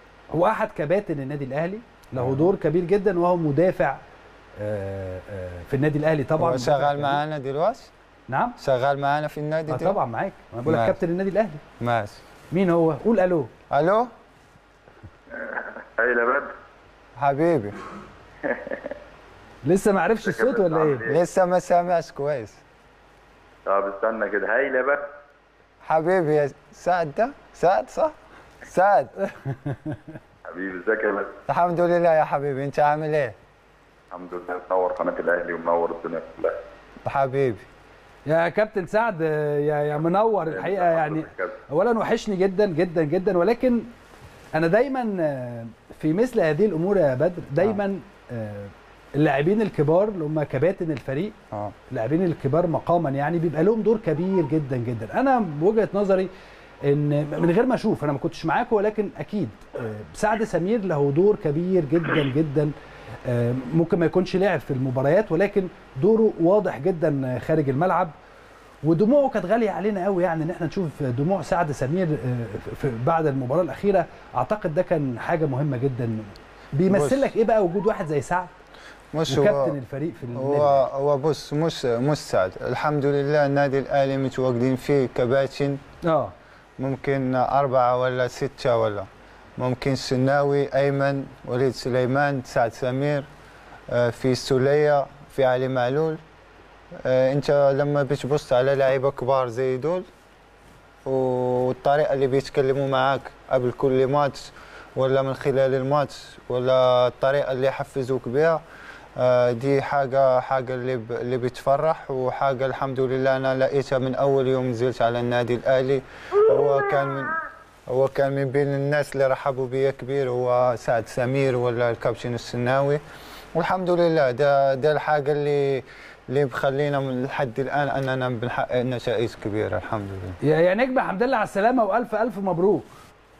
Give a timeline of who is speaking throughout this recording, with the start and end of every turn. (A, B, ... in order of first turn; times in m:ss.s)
0:00.3-0:04.0 A
0:02.2-0:02.5 B
0:04.6-0:07.2 A
0:06.4-0:07.9 B
0:08.3-0:08.6 A
0:08.6-0:10.0 B
0:09.7-0:11.6 A
0:10.6-0:11.0 B
0:11.8-0:12.2 B
0:12.5-0:13.5 A
0:13.7-0:14.1 B
0:15.3-0:16.5 C
0:17.2-0:17.8 B
0:18.4-0:18.9 C
0:19.6-0:21.0 A
0:20.2-0:21.2 C
0:21.0-0:22.6 B
0:23.7-0:25.0 C
0:25.8-0:28.1 B
0:28.6-0:29.1 B
0:29.2-0:30.2 A
0:30.5-0:31.3 C
0:31.5-0:33.3 B
0:34.1-0:36.6 C
0:37.0-0:37.6 B
0:38.2-0:43.9 A
0:40.5-0:41.6 C
0:44.5-0:51.4 A
0:51.9-0:56.3 A
0:56.8-1:02.7 A
1:03.2-1:08.1 A
1:08.8-1:18.5 A
1:16.9-1:17.3 B
1:19.1-1:19.8 B
1:19.3-1:20.8 A
1:20.3-1:25.8 B
1:26.0-1:26.3 A
1:26.8-1:33.3 B
1:33.9-1:36.2 B
1:37.0-1:40.0 B
1:41.0-1:48.6 B
1:49.2-1:57.4 B
1:57.9-2:03.0 B
2:03.5-2:10.4 B
2:10.4-2:12.8 A